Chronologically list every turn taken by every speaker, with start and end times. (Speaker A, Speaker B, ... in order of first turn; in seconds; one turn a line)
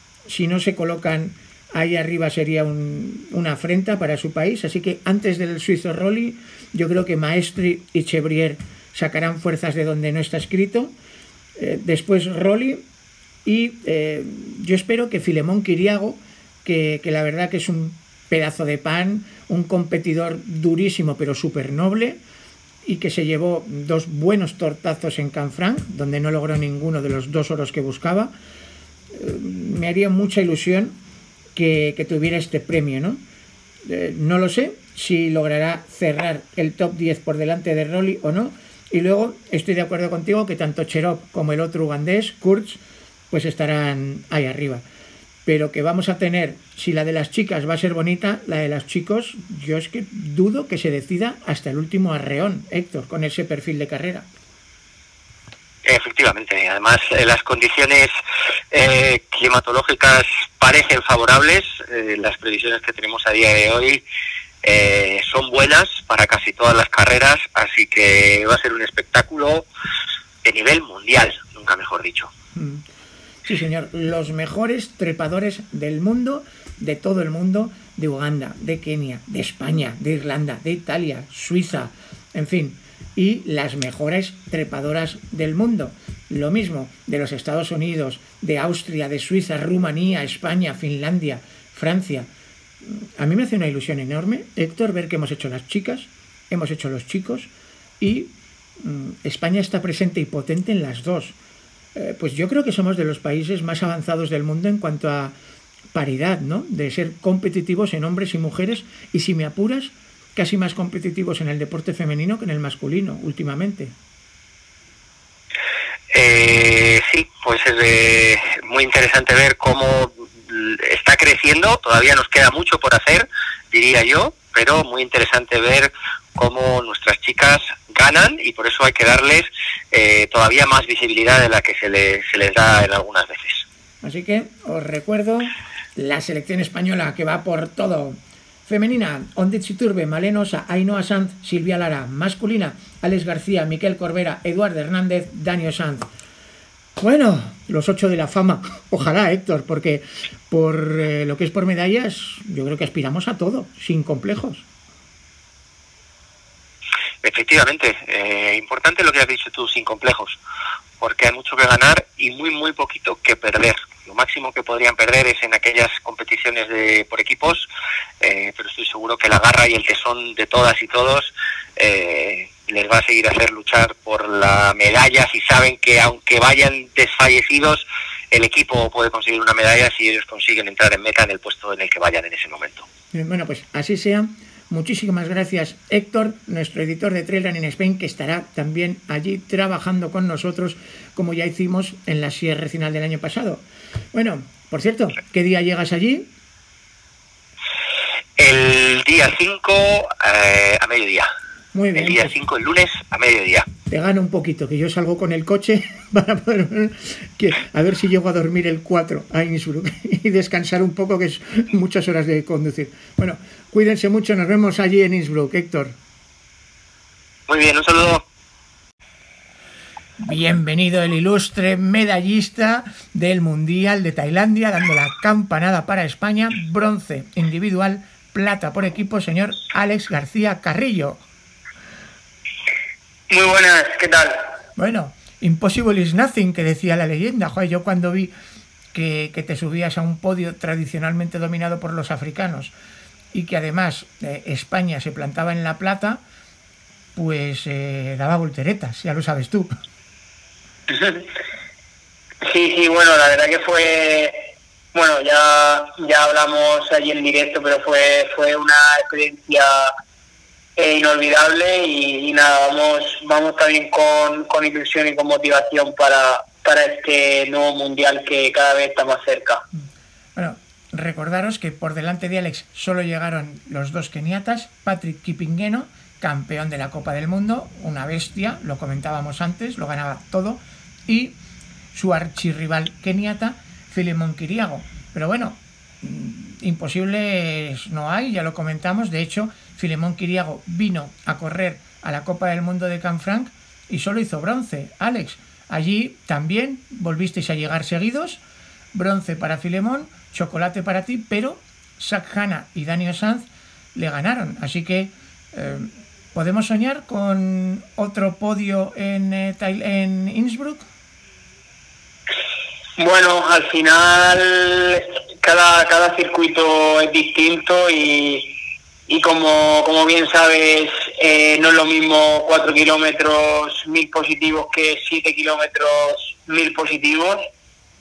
Speaker A: 0.3-10.9
Speaker A: 11.6-12.8
Speaker A: 13.4-22.2
Speaker A: 22.8-28.3
Speaker A: 29.1-31.0
Speaker A: 31.5-33.2
Speaker A: 33.8-42.8
Speaker A: 43.3-44.8
Speaker A: 45.4-54.2
Speaker B: 55.8-58.1
Speaker B: 58.7-64.0
Speaker B: 64.6-69.7
Speaker B: 70.4-72.3
Speaker A: 72.5-72.8
Speaker A: 73.4-92.3
Speaker A: 92.8-101.3
Speaker A: 101.9-105.3
Speaker A: 105.9-113.9
Speaker B: 116.1-133.6
Speaker A: 134.0-146.1
Speaker A: 147.0-154.6
Speaker B: 157.2-160.4
Speaker B: 161.0-167.7
Speaker B: 168.2-182.8
Speaker A: 183.1-196.3
Speaker B: 198.4-201.3
Speaker A: 201.7-202.3
Speaker B: 201.9-203.7
Speaker A: 203.9-215.9
Speaker B: 217.5-218.2
Speaker A: 220.2-231.2
Speaker C: 233.3-234.5
Speaker A: 234.8-238.3
Speaker A: 238.9-242.7
Speaker A: 243.3-246.2
Speaker A: 247.1-249.7
Speaker C: 250.9-251.2
Speaker C: 252.4-254.4
Speaker C: 254.9-259.9
Speaker C: 260.8-269.6
Speaker A: 270.3-281.4
Speaker A: 281.9-298.4
Speaker A: 298.9-310.8
Speaker C: 313.0-318.5
Speaker C: 319.1-327.4